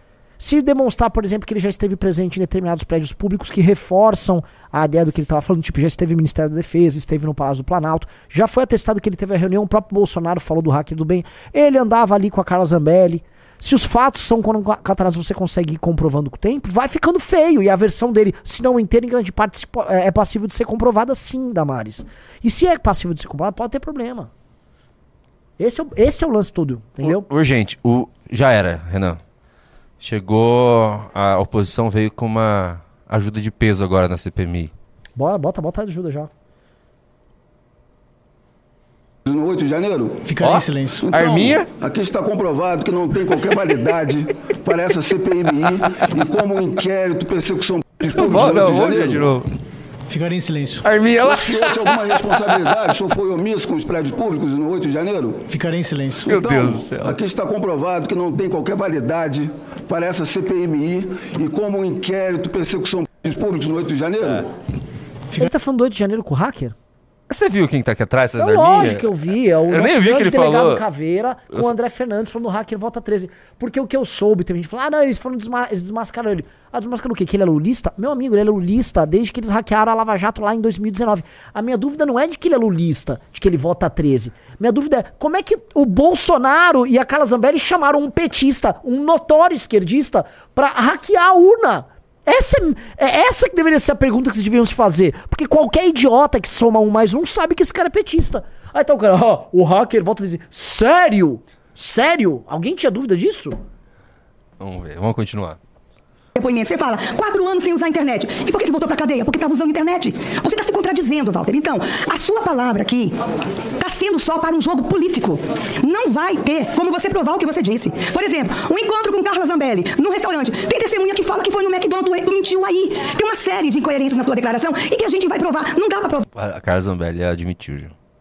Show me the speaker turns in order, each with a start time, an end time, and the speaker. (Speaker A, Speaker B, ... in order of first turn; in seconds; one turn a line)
Speaker A: 0.4-24.3
Speaker A: 25.6-27.3
Speaker B: 27.0-29.2
Speaker B: 30.0-34.7
Speaker A: 35.2-36.3
Speaker C: 39.3-40.3
Speaker D: 40.3-41.1
Speaker B: 40.4-41.7
Speaker C: 41.0-49.4
Speaker B: 48.1-49.5
Speaker D: 50.1-50.9
Speaker B: 50.9-52.0
Speaker C: 51.1-55.5
Speaker D: 55.5-56.3
Speaker B: 56.3-57.2
Speaker C: 56.3-64.5
Speaker A: 65.4-66.8
Speaker B: 67.3-69.1
Speaker A: 68.4-103.6
Speaker B: 69.7-70.8
Speaker B: 104.6-105.6
Speaker E: 106.4-113.2
Speaker E: 113.8-126.2
Speaker B: 126.3-127.9